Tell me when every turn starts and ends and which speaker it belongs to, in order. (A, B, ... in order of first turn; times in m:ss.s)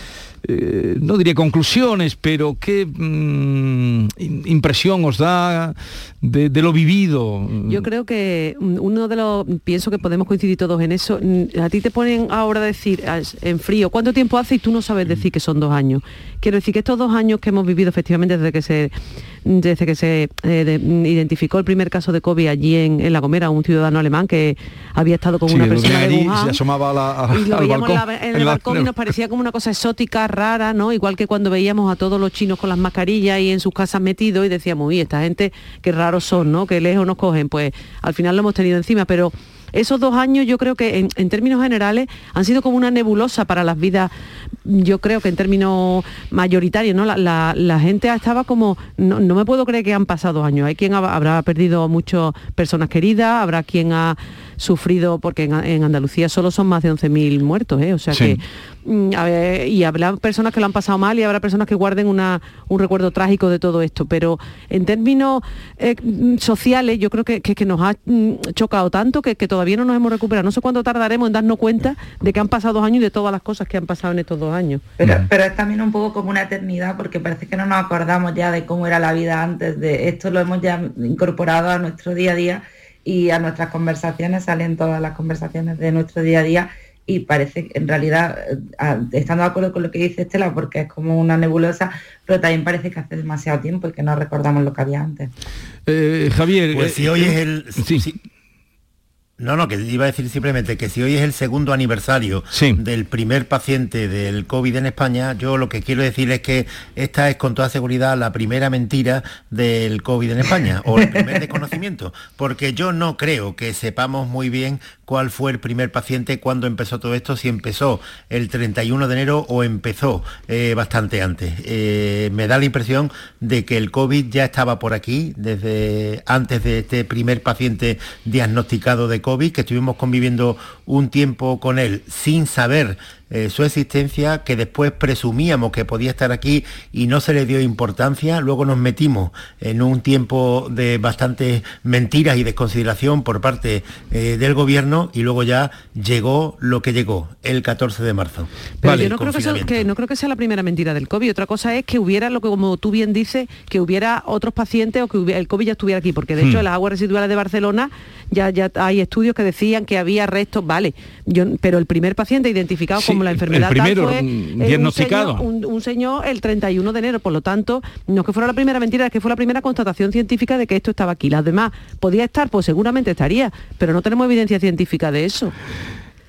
0:00.4-0:07.8 A
0:07.6-0:18.9 B
0:19.4-0:26.6 B
0:25.5-0:29.1 A
0:27.3-0:44.1 B
0:44.6-1:14.8 B
0:58.1-0:58.4 A
1:15.0-1:35.3 C
1:35.9-1:38.1 A
1:36.7-1:38.2 D
1:39.4-2:29.9 D
1:42.5-1:42.8 A
2:28.8-2:55.5 B
2:28.8-2:29.1 A
2:43.0-2:45.4 A